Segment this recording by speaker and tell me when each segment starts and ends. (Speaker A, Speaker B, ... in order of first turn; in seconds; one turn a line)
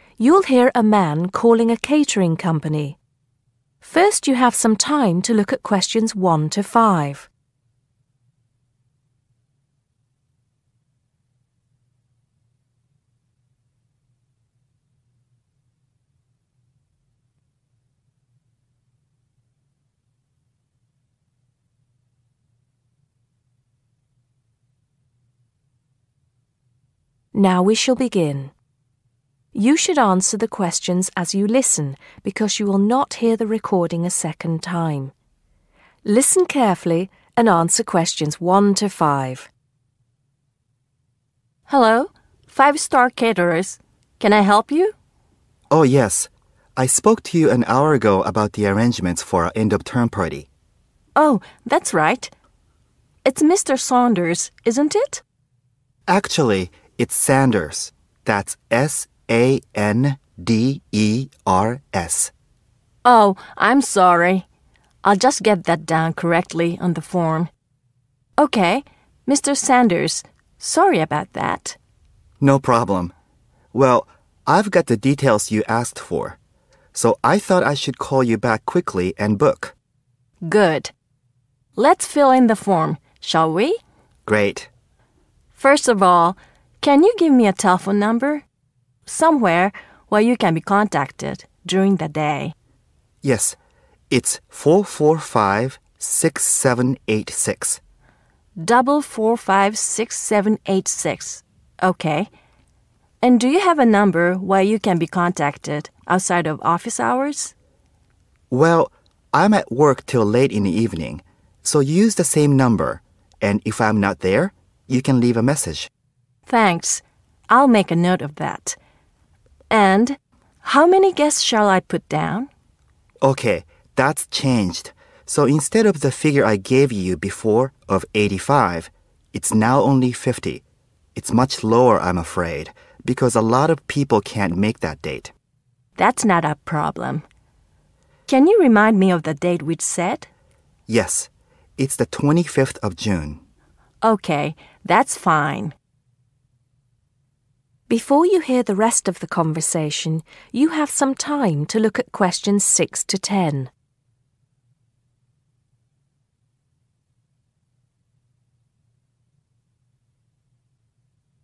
Speaker A: 0.2-3.0
Speaker A: 3.8-7.3
Speaker A: 27.3-28.5
Speaker A: 29.5-35.1
Speaker A: 36.0-39.5
Speaker B: 41.7-44.9
Speaker C: 45.7-50.5
Speaker B: 51.2-52.3
Speaker B: 53.2-55.2
Speaker C: 56.1-62.3
Speaker B: 63.0-64.5
Speaker B: 65.0-67.5
Speaker B: 68.4-71.8
Speaker C: 72.4-73.1
Speaker C: 73.7-76.4
Speaker C: 77.0-79.7
Speaker B: 80.5-80.9
Speaker B: 81.8-83.8
Speaker C: 84.3-84.7
Speaker B: 85.5-88.4
Speaker B: 89.1-92.5
Speaker C: 93.2-93.6
Speaker C: 94.1-97.8
Speaker B: 98.6-102.3
Speaker B: 103.2-107.5
Speaker C: 108.5-115.9
Speaker B: 116.5-118.8
Speaker B: 119.7-122.5
Speaker C: 123.2-130.6
Speaker C: 131.2-135.3
Speaker B: 136.0-137.2
Speaker B: 138.3-140.3
Speaker C: 140.9-143.4
Speaker B: 144.0-145.8
Speaker A: 147.9-153.7